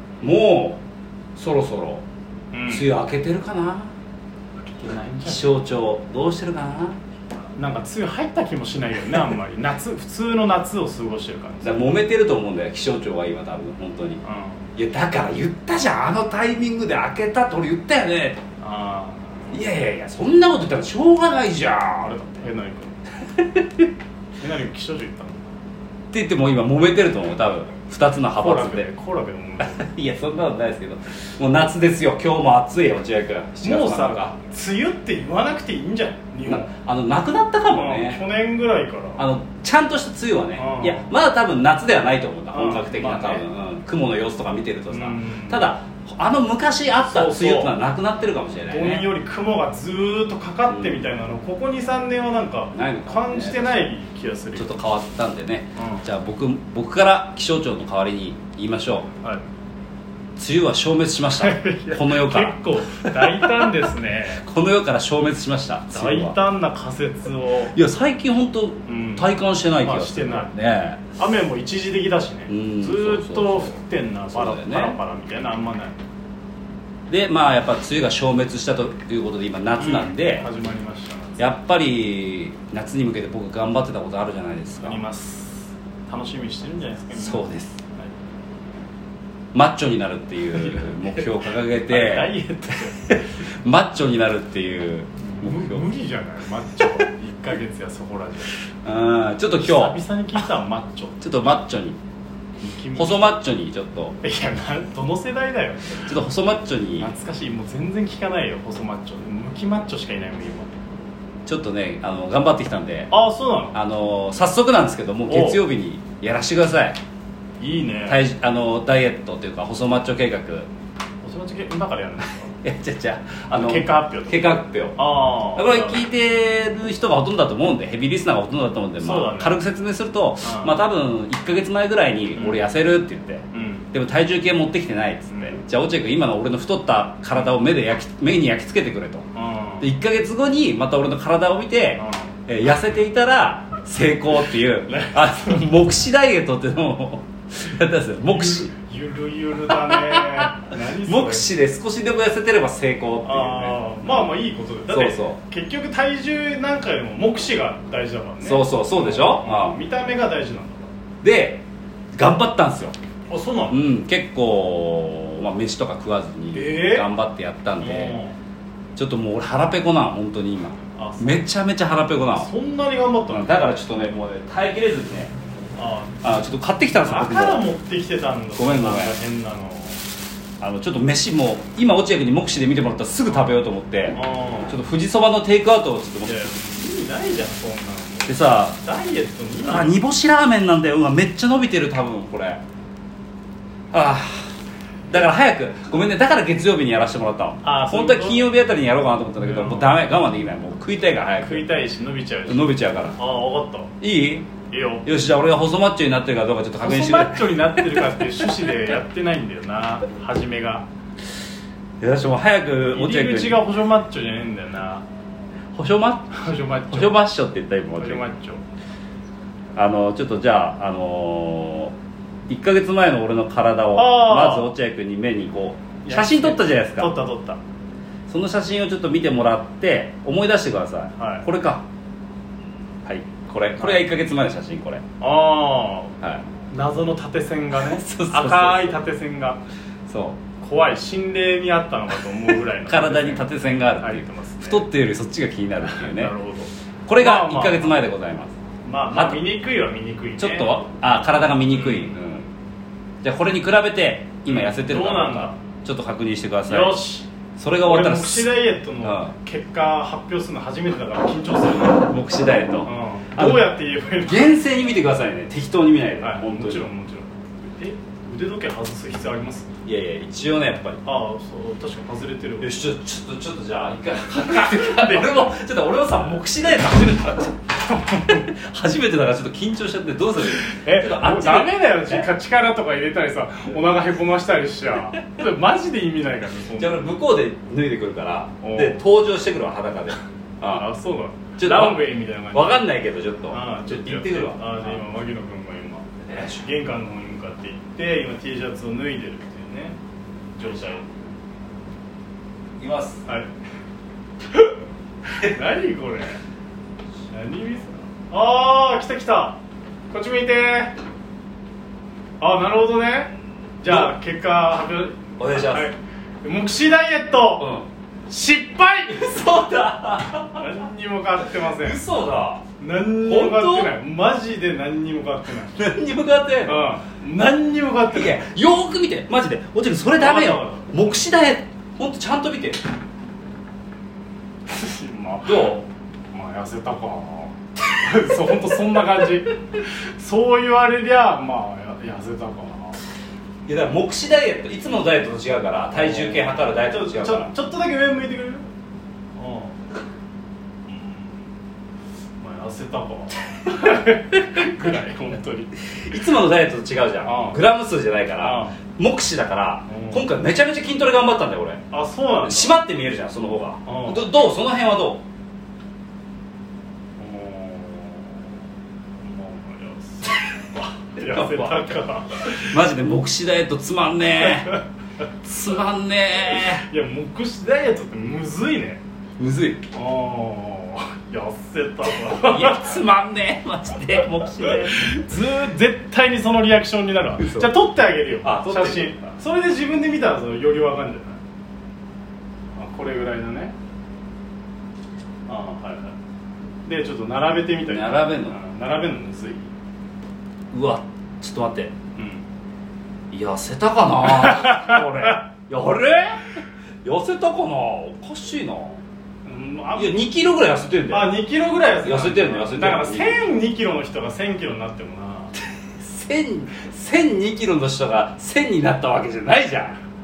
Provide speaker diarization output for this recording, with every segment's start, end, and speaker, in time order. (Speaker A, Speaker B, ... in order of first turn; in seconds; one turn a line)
Speaker A: 0.2-0.8
Speaker A: 1.4-2.0
Speaker B: 2.5-2.9
Speaker A: 2.7-3.9
Speaker B: 4.6-5.5
Speaker A: 5.2-7.0
Speaker B: 7.5-12.0
Speaker A: 11.6-14.2
Speaker B: 14.2-14.7
Speaker A: 14.8-18.4
Speaker B: 18.6-19.4
Speaker A: 19.5-22.1
Speaker B: 22.0-23.0
Speaker A: 23.3-23.9
Speaker B: 24.4-25.5
Speaker A: 26.1-28.9
Speaker B: 28.4-29.9
Speaker A: 29.6-34.3
Speaker B: 33.6-36.7
Speaker A: 36.5-38.2
Speaker B: 37.7-39.2
Speaker A: 39.2-49.1
Speaker B: 40.6-41.0
Speaker B: 42.5-43.4
Speaker B: 44.9-45.7
Speaker B: 47.0-47.8
Speaker B: 48.7-54.7
Speaker A: 50.7-51.0
Speaker A: 52.7-53.9
Speaker A: 54.5-59.1
Speaker B: 55.8-56.0
Speaker A: 60.4-63.7
Speaker B: 61.3-64.4
Speaker A: 64.4-66.4
Speaker B: 65.9-67.8
Speaker A: 67.7-71.0
Speaker B: 68.8-70.5
Speaker B: 71.2-76.0
Speaker A: 72.5-73.8
Speaker A: 74.3-75.0
Speaker A: 77.1-80.5
Speaker B: 79.8-81.5
Speaker A: 81.4-85.0
Speaker B: 84.8-88.1
Speaker A: 87.1-87.8
Speaker A: 89.5-92.3
Speaker B: 90.5-91.3
Speaker B: 91.8-93.3
Speaker A: 93.1-95.9
Speaker B: 95.2-98.6
Speaker A: 98.8-100.0
Speaker B: 99.5-101.2
Speaker A: 101.2-102.0
Speaker B: 102.6-103.4
Speaker A: 102.9-104.2
Speaker B: 104.2-106.1
Speaker A: 106.0-107.1
Speaker B: 107.0-110.7
Speaker A: 111.5-113.1
Speaker B: 113.1-113.8
Speaker A: 113.7-117.0
Speaker B: 115.3-115.6
Speaker B: 117.6-118.2
Speaker A: 118.0-120.7
Speaker B: 121.2-122.5
Speaker A: 122.6-139.2
Speaker B: 123.5-126.0
Speaker B: 129.0-129.6
Speaker B: 130.4-130.8
Speaker B: 132.3-132.6
Speaker B: 133.5-133.9
Speaker B: 135.3-135.6
Speaker B: 139.3-139.9
Speaker A: 139.8-148.7
Speaker B: 141.9-142.3
Speaker B: 144.9-145.7
Speaker B: 148.3-151.5
Speaker A: 149.8-154.3
Speaker B: 153.2-160.9
Speaker A: 154.9-155.4
Speaker A: 158.4-159.8
Speaker A: 161.2-161.6
Speaker A: 162.1-162.9
Speaker B: 163.3-163.8
Speaker A: 163.7-168.2
Speaker B: 166.5-167.1
Speaker B: 167.8-168.3
Speaker A: 169.0-172.5
Speaker B: 170.9-171.5
Speaker B: 172.3-173.7
Speaker A: 173.3-175.3
Speaker B: 175.8-180.0
Speaker A: 176.2-177.6
Speaker A: 178.6-179.2
Speaker A: 180.6-186.5
Speaker B: 183.3-183.5
Speaker B: 184.1-184.7
Speaker B: 186.2-189.9
Speaker A: 188.3-188.8
Speaker A: 189.6-192.6
Speaker A: 193.9-194.5
Speaker A: 195.1-201.7
Speaker B: 197.6-198.4
Speaker B: 199.4-199.9
Speaker B: 201.4-203.9
Speaker A: 202.5-203.2
Speaker A: 204.0-204.5
Speaker B: 204.7-205.0
Speaker A: 205.0-208.3
Speaker B: 206.8-210.8
Speaker A: 212.0-213.6
Speaker B: 212.9-215.0
Speaker A: 215.7-218.2
Speaker B: 216.3-217.2
Speaker B: 218.0-218.6
Speaker A: 219.8-221.9
Speaker A: 222.5-227.2
Speaker B: 223.9-224.7
Speaker B: 226.0-227.6
Speaker A: 228.3-231.8
Speaker B: 231.2-231.4
Speaker A: 233.0-235.0
Speaker B: 233.8-234.1
Speaker B: 235.2-236.1
Speaker B: 236.7-239.6
Speaker A: 237.8-239.0
Speaker A: 240.1-240.4
Speaker B: 240.6-244.8
Speaker A: 242.9-246.3
Speaker B: 245.8-248.0
Speaker A: 247.1-248.5
Speaker B: 248.8-250.8
Speaker A: 249.1-249.4
Speaker A: 250.4-252.4
Speaker B: 251.7-252.5
Speaker A: 253.2-257.0
Speaker B: 254.4-255.6
Speaker B: 256.7-257.3
Speaker A: 257.6-259.3
Speaker B: 257.8-262.1
Speaker A: 262.0-263.7
Speaker B: 262.8-264.6
Speaker A: 264.2-266.9
Speaker B: 266.2-269.7
Speaker A: 269.8-271.0
Speaker B: 271.0-272.7
Speaker A: 272.6-282.3
Speaker B: 274.4-275.5
Speaker B: 278.1-278.4
Speaker B: 280.5-287.1
Speaker A: 286.8-290.9
Speaker B: 288.6-289.0
Speaker B: 290.7-292.9
Speaker A: 291.6-295.0
Speaker B: 293.5-299.9
Speaker A: 296.2-296.7
Speaker B: 300.6-301.3
Speaker A: 302.8-303.2
Speaker B: 305.4-306.4
Speaker B: 307.3-309.6
Speaker B: 310.1-310.9
Speaker B: 312.4-317.7
Speaker A: 315.4-315.9
Speaker A: 317.6-317.9
Speaker B: 318.3-319.5
Speaker A: 319.1-320.9
Speaker B: 320.4-322.1
Speaker A: 321.6-322.6
Speaker B: 322.8-325.9
Speaker A: 323.2-323.9
Speaker A: 325.7-326.8
Speaker B: 326.6-328.4
Speaker A: 328.1-332.8
Speaker B: 330.2-331.2
Speaker B: 334.7-343.0
Speaker A: 335.4-335.8
Speaker A: 343.6-347.5
Speaker B: 345.9-348.6
Speaker B: 349.4-349.8
Speaker B: 350.9-351.4
Speaker B: 352.4-356.0
Speaker A: 355.9-361.8
Speaker B: 357.2-357.6
Speaker B: 358.4-358.8
Speaker B: 359.9-360.3
Speaker B: 361.9-362.7
Speaker A: 362.4-365.2
Speaker B: 363.8-364.2
Speaker B: 367.2-368.5
Speaker B: 369.2-372.7
Speaker A: 371.2-374.8
Speaker B: 374.4-374.8
Speaker A: 375.4-376.8
Speaker B: 376.4-379.0
Speaker A: 379.4-379.9
Speaker B: 379.9-383.0
Speaker A: 382.3-385.4
Speaker B: 384.6-391.4
Speaker A: 387.4-387.7
Speaker A: 388.4-389.2
Speaker B: 392.8-393.7
Speaker B: 395.5-396.1
Speaker B: 396.9-399.7
Speaker A: 397.8-398.6
Speaker A: 400.7-401.9
Speaker B: 402.1-402.4
Speaker A: 403.3-409.0
Speaker B: 404.2-405.3
Speaker B: 409.4-410.2
Speaker A: 409.9-411.3
Speaker B: 411.1-415.5
Speaker A: 412.0-413.5
Speaker A: 415.6-420.0